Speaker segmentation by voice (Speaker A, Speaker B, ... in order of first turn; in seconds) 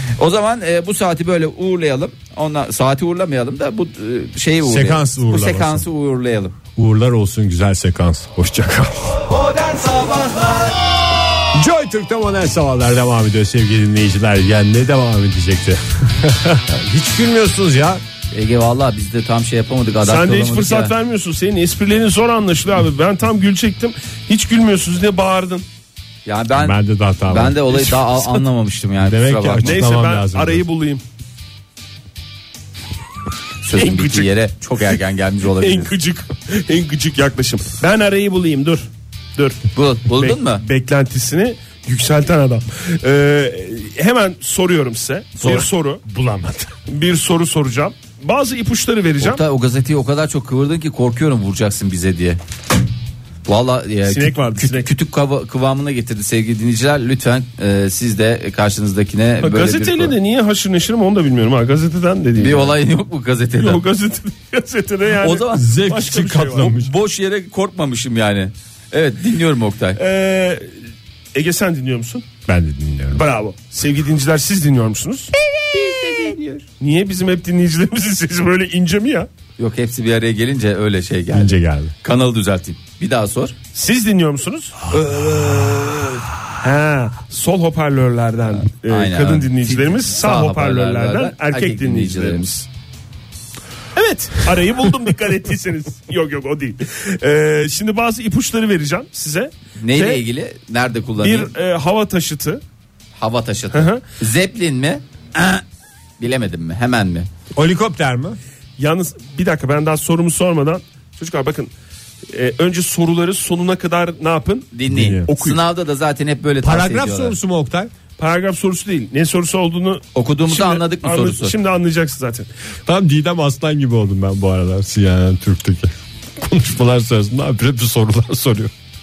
Speaker A: 0.2-6.6, 9.3-10.8, 18.3-20.9, 26.2-29.9, 33.6-35.9, 39.7-40.6, 45.4-45.7, 49.2-52.4, 53.5-60.1, 62.4-63.8, 65.2-70.0, 75.7-76.4, 79.6-83.5, 88.9-92.5, 99.8-101.5, 103.2-105.6, 106.2-107.3, 114.7-117.4, 120.1-121.5
Speaker B: 4.6-5.8, 6.8-9.2, 11.5-18.0, 26.6-27.8, 29.0-30.6, 46.0-46.7, 65.5-66.9, 72.5-73.2, 81.3-81.9, 84.9-86.1, 107.5-108.4, 114.9-115.3, 116.6-117.9, 122.9-128.7
Speaker C: 20.0-25.6, 27.9-28.3, 29.6-31.0, 33.7-34.3, 35.6-46.0, 46.9-49.4, 54.1-54.9, 59.4-62.8, 63.6-66.7, 70.0-70.8, 71.3-72.2, 73.1-79.3, 83.7-84.8, 86.6-92.7, 93.9-100.2, 101.2-102.6, 103.7-104.0, 108.8-111.7, 112.3-114.7, 115.3-115.6, 118.2-122.5